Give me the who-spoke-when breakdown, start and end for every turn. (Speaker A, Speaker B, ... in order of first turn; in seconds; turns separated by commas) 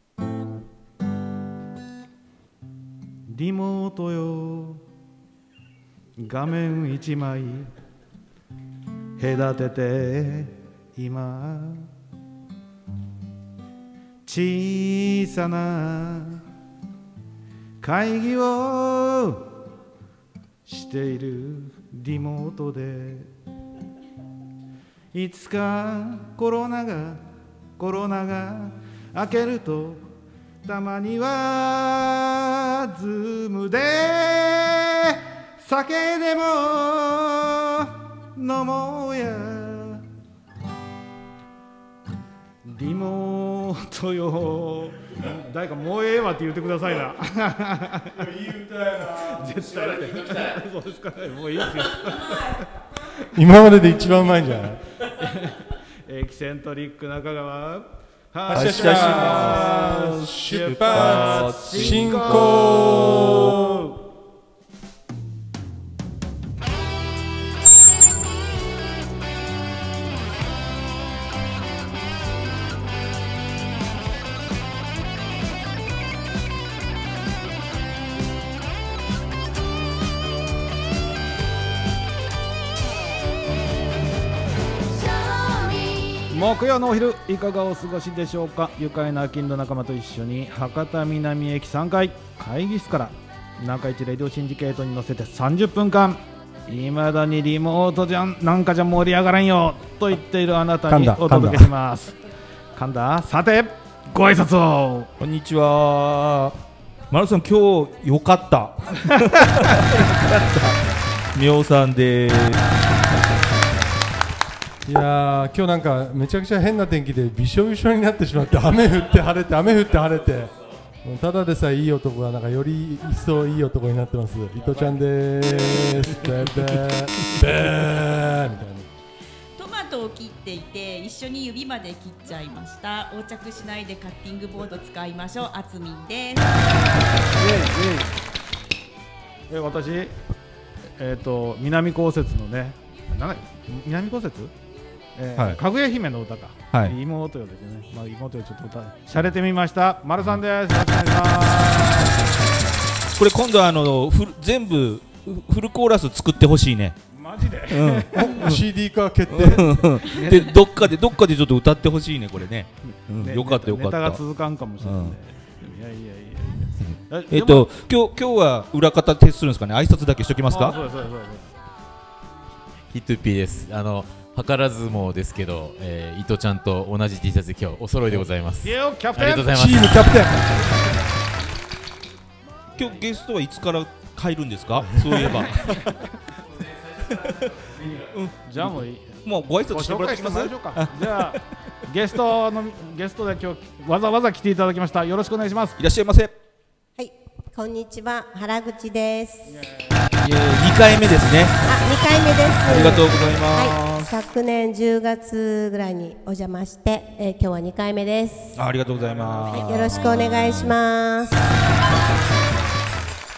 Speaker A: 3.3-4.8, Speaker A: 6.2-7.7, Speaker A: 9.2-11.9, Speaker A: 14.2-16.4, Speaker A: 17.8-19.5, Speaker A: 20.6-23.3, Speaker A: 25.1-27.2, Speaker A: 27.8-30.1, Speaker A: 30.6-40.0, Speaker A: 42.6-48.3, Speaker B: 48.2-49.3, Speaker A: 48.9-52.7, Speaker B: 53.3-54.8, Speaker A: 55.0-64.0, Speaker C: 58.5-63.5, Speaker B: 58.5-63.9, Speaker A: 86.2-102.2, Speaker B: 100.9-101.7, Speaker A: 102.7-105.1, Speaker C: 105.2-106.6, Speaker C: 107.1-110.8, Speaker C: 111.3-112.6, Speaker B: 114.8-128.9, Speaker A: 124.7-126.4, Speaker D: 129.6-136.8, Speaker A: 137.3-138.2, Speaker A: 139.5-140.1, Speaker A: 141.0-144.5, Speaker A: 145.2-152.2, Speaker B: 145.3-145.6, Speaker C: 153.2-157.0, Speaker A: 157.1-158.3, Speaker C: 157.7-158.6, Speaker B: 158.1-160.0, Speaker C: 159.3-164.2, Speaker A: 160.0-160.5, Speaker A: 163.2-167.7, Speaker C: 164.8-165.2, Speaker C: 167.3-170.8, Speaker A: 170.5-171.5, Speaker E: 172.9-180.0, Speaker A: 178.6-179.6, Speaker B: 179.5-180.5, Speaker C: 182.7-185.8, Speaker A: 185.2-186.1, Speaker C: 187.0-191.4, Speaker A: 188.4-195.8, Speaker C: 195.8-196.3, Speaker F: 197.0-199.5, Speaker A: 199.5-199.9, Speaker C: 200.2-201.7, Speaker F: 201.7-208.6, Speaker C: 202.7-204.1, Speaker C: 208.6-210.7, Speaker A: 208.8-210.0, Speaker F: 209.5-211.5